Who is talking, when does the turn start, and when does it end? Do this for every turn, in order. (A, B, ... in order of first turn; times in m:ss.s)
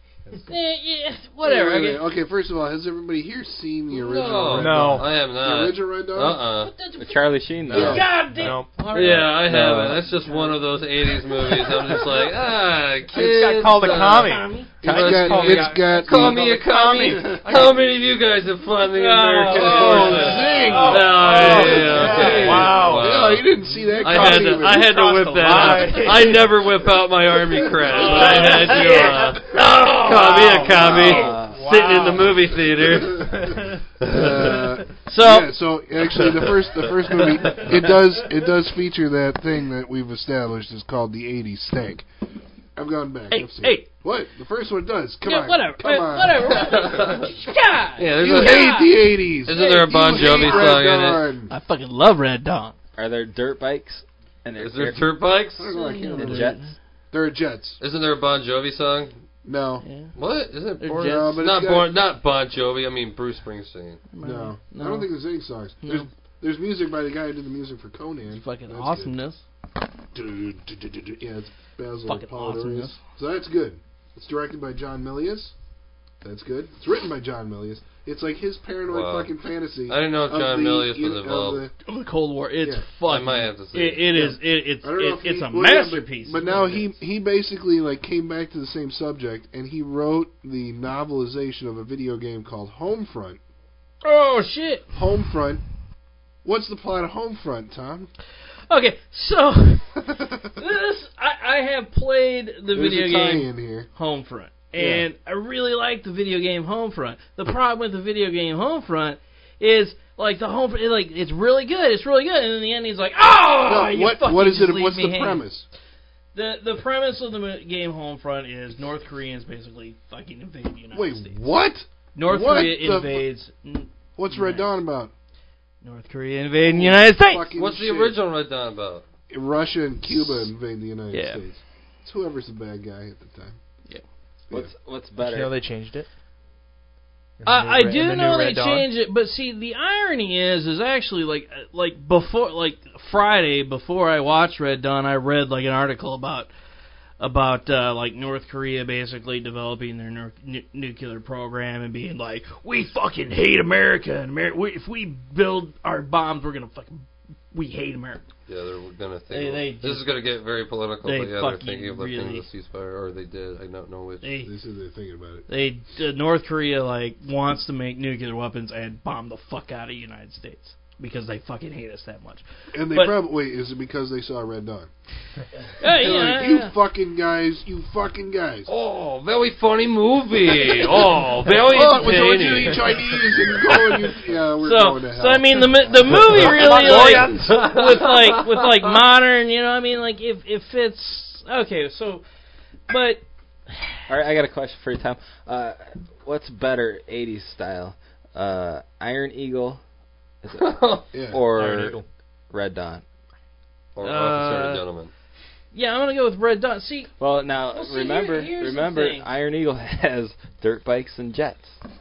0:00.4-0:02.0 A
0:01.4-0:06.4 B
0:03.9-0:06.7 C
0:04.5-0:05.1 D
0:06.5-0:11.2 A
0:07.0-0:08.1 E
0:07.7-0:08.0 C
0:07.7-0:08.0 B
0:08.3-0:09.8 D
0:08.9-0:23.5 C
0:13.1-0:17.3 D
0:13.8-0:16.1 A
0:14.8-0:17.8 B
0:18.9-0:22.8 A
0:19.6-0:24.9 B
0:20.7-0:23.2 D
0:24.0-0:26.5 D
0:24.0-0:34.7 C
0:24.1-0:26.5 A
0:27.5-0:31.4 A
0:28.0-0:29.1 D
0:30.8-0:31.7 E
0:31.5-0:32.5 D
0:32.9-0:33.3 B
0:33.0-0:33.8 D
0:34.0-0:42.1 B
0:35.0-0:35.5 A
0:37.3-0:37.7 C
0:42.8-0:46.7 B
0:43.3-0:43.9 A
0:45.2-0:50.8 A
0:46.6-0:47.3 C
0:48.0-0:48.8 C
0:48.2-0:51.5 B
0:49.4-0:51.2 C
0:51.5-0:52.8 A
0:53.0-0:55.1 E
0:54.6-0:55.8 C
0:55.6-0:56.5 B
0:55.7-0:56.7 A
0:56.2-0:56.7 E
0:57.1-0:57.8 B
0:57.8-0:59.1 C
0:59.4-0:59.8 B
0:59.8-1:00.1 A
1:00.2-1:04.0 C
1:00.8-1:01.3 A
1:01.0-1:01.9 B
1:04.1-1:05.1 A
1:04.2-1:09.1 B
1:05.8-1:06.1 A
1:08.3-1:09.4 A
1:10.1-1:15.5 B
1:12.0-1:13.0 A
1:16.2-1:21.7 B
1:18.9-1:19.3 C
1:19.9-1:21.6 C
1:21.8-1:26.9 A
1:23.0-1:24.2 C
1:24.1-1:33.4 B
1:34.0-1:35.0 A
1:34.9-1:35.6 B
1:36.4-1:38.1 B
1:38.7-1:55.4 A
1:42.7-1:43.9 B
1:44.8-1:45.0 B
1:53.6-1:55.6 B
1:56.3-2:01.3 A
2:00.9-2:03.2 B
2:02.1-2:04.7 A
2:04.2-2:05.1 B
2:05.8-2:07.5 A
2:06.6-2:08.2 B
2:07.6-2:09.0 C
2:09.3-2:13.6 B
2:11.1-2:11.4 A
2:14.5-2:15.5 E
2:15.2-2:16.1 D
2:17.4-2:18.9 D
2:17.4-2:26.5 A
2:27.2-2:38.2 A
2:38.5-2:44.4 C
2:39.3-2:40.1 A
2:41.0-2:42.4 A
2:44.2-2:44.5 A
2:44.4-2:45.5 B
2:45.5-2:53.1 A
2:52.7-2:54.9 B
2:55.8-2:56.7 A
2:55.8-2:58.7 B
2:58.7-3:02.9 C
3:01.7-3:05.5 B
3:04.6-3:12.2 A
3:06.3-3:08.8 C
3:12.9-3:14.0 A
3:14.1-3:19.8 E
3:20.4-3:22.0 E
3:20.6-3:21.0 C
3:21.1-3:21.4 B
3:21.5-3:22.0 D
3:22.5-3:23.0 E
3:24.0-3:25.1 C
3:24.0-3:24.8 A
3:25.7-3:27.1 A
3:27.2-3:31.8 E
3:27.6-3:29.3 A